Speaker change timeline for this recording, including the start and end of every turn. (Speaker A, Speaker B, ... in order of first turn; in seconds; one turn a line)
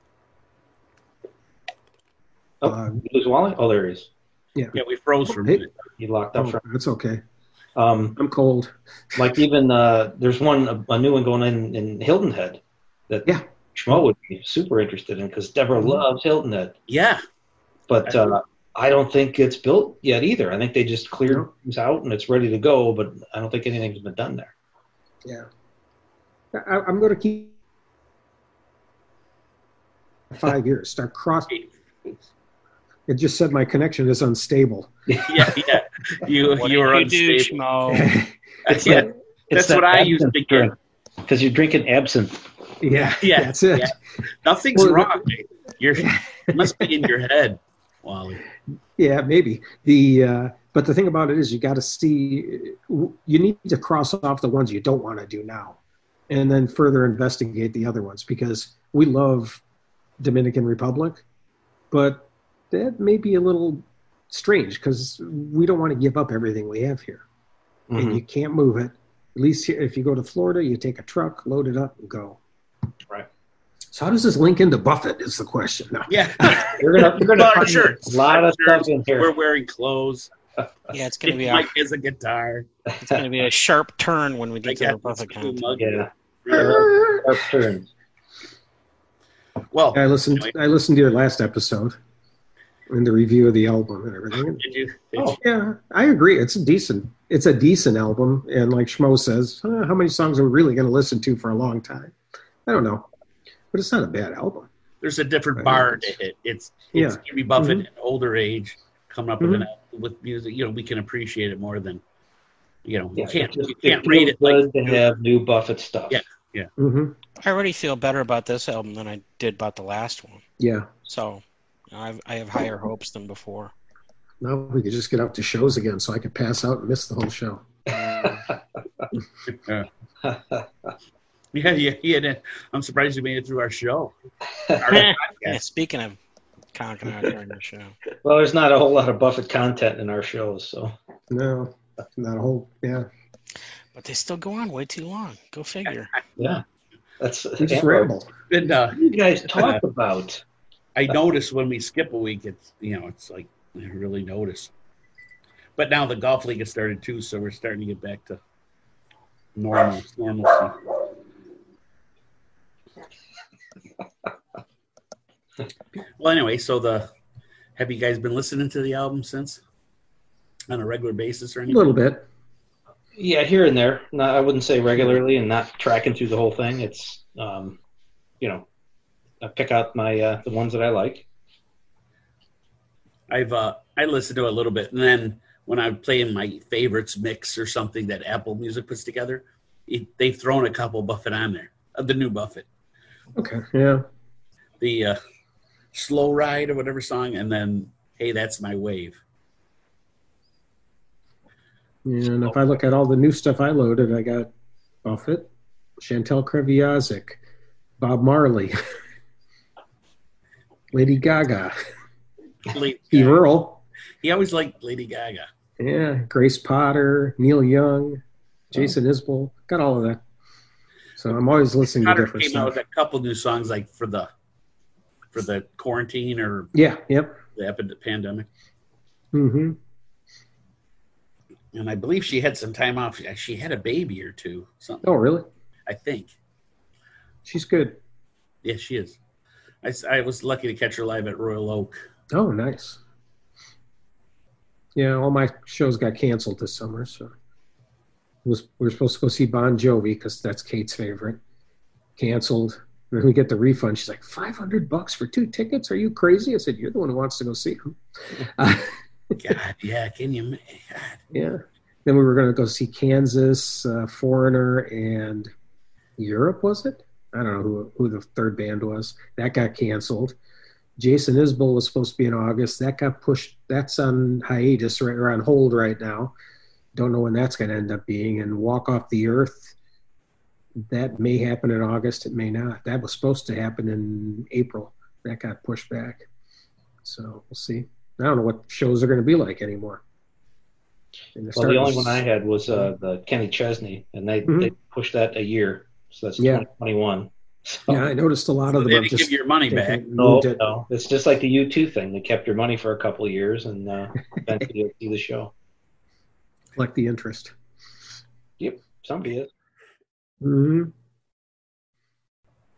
Speaker A: 2.6-4.1
Speaker B: 2.6-3.0
Speaker B: 4.5-5.6
Speaker C: 4.7-5.7
Speaker A: 6.0-6.6
Speaker B: 6.3-7.2
Speaker A: 7.8-8.2
Speaker B: 8.2-9.2
Speaker A: 9.2-16.8
Speaker B: 15.8-16.0
Speaker C: 16.9-17.2
Speaker A: 17.9-24.5
Speaker B: 26.5-27.5
Speaker B: 30.3-31.5
Speaker C: 31.5-32.1
Speaker B: 33.1-34.9
Speaker C: 35.2-37.6
Speaker D: 36.5-38.1
Speaker B: 37.9-39.0
Speaker C: 38.6-40.7
Speaker A: 38.7-40.7
Speaker A: 41.3-42.4
Speaker B: 42.8-44.0
Speaker C: 43.2-48.4
Speaker B: 44.7-45.2
Speaker B: 46.0-47.1
Speaker B: 49.0-55.8
Speaker B: 56.3-59.6
Speaker B: 60.2-61.2
Speaker B: 61.9-67.2
Speaker A: 67.9-68.2
Speaker B: 68.0-72.4
Speaker B: 73.9-76.6
Speaker C: 76.1-80.3
Speaker A: 76.8-79.3
Speaker D: 80.9-81.7
Speaker C: 81.2-82.7
Speaker D: 83.0-85.7
Speaker C: 84.6-86.9
Speaker A: 85.8-87.9
Speaker B: 86.5-87.2
Speaker C: 89.7-90.5
Speaker B: 89.9-92.0
Speaker B: 92.9-94.6
Speaker C: 94.6-95.4
Speaker B: 95.4-102.1
Speaker B: 102.7-103.1
Speaker B: 103.7-104.7
Speaker C: 105.0-112.0
Speaker B: 105.6-106.1
Speaker B: 106.9-107.8
Speaker B: 109.4-109.7
Speaker C: 112.8-115.0
Speaker A: 113.2-116.2
Speaker C: 116.1-116.7
Speaker B: 116.8-117.2
Speaker D: 117.4-120.4
Speaker B: 120.6-120.9
Speaker D: 121.0-123.7
Speaker B: 124.4-127.6
Speaker C: 129.5-129.9
Speaker A: 130.2-130.6
Speaker C: 131.5-134.1
Speaker C: 134.8-135.6
Speaker D: 134.9-136.2
Speaker D: 136.7-137.9
Speaker A: 138.2-140.9
Speaker B: 141.3-143.1
Speaker D: 143.9-146.1
Speaker A: 146.4-146.6
Speaker A: 147.2-148.1
Speaker B: 147.6-148.3
Speaker C: 148.5-149.0
Speaker A: 148.9-150.4
Speaker C: 150.9-154.7
Speaker C: 155.8-158.4
Speaker C: 159.6-160.8
Speaker C: 166.2-167.1
Speaker C: 167.8-169.6
Speaker C: 170.7-171.9
Speaker B: 171.7-172.2
Speaker A: 173.2-177.8
Speaker A: 179.4-181.2
Speaker C: 183.3-192.7
Speaker B: 193.3-194.0
Speaker C: 194.8-195.2
Speaker C: 195.9-199.2
Speaker B: 202.0-204.5
Speaker B: 205.0-207.4
Speaker B: 208.0-208.7
Speaker B: 210.9-211.7
Speaker C: 212.7-213.4
Speaker B: 213.1-213.8
Speaker C: 214.2-215.5
Speaker B: 215.8-218.2
Speaker B: 218.7-220.2
Speaker B: 221.2-222.8
Speaker C: 222.0-224.3
Speaker C: 225.3-226.7
Speaker B: 226.7-227.4
Speaker C: 227.6-228.5
Speaker B: 229.3-229.8
Speaker C: 231.7-235.0
Speaker B: 235.0-235.5
Speaker C: 235.9-236.3
Speaker B: 237.4-238.0
Speaker C: 238.6-239.2
Speaker C: 239.8-241.9
Speaker B: 242.3-243.0
Speaker B: 244.9-247.3
Speaker B: 248.4-251.4
Speaker B: 252.2-259.5
Speaker C: 259.4-261.2
Speaker B: 261.3-265.5
Speaker B: 266.2-270.4
Speaker B: 271.0-276.3
Speaker B: 276.9-279.8
Speaker B: 280.8-286.2
Speaker B: 287.0-290.0
Speaker B: 291.3-292.9
Speaker A: 291.5-298.1
Speaker B: 294.5-294.7
Speaker B: 296.4-296.7
Speaker B: 297.9-300.6
Speaker C: 298.8-300.0
Speaker A: 300.2-305.5
Speaker B: 306.7-307.5
Speaker A: 308.6-309.5
Speaker B: 310.4-310.9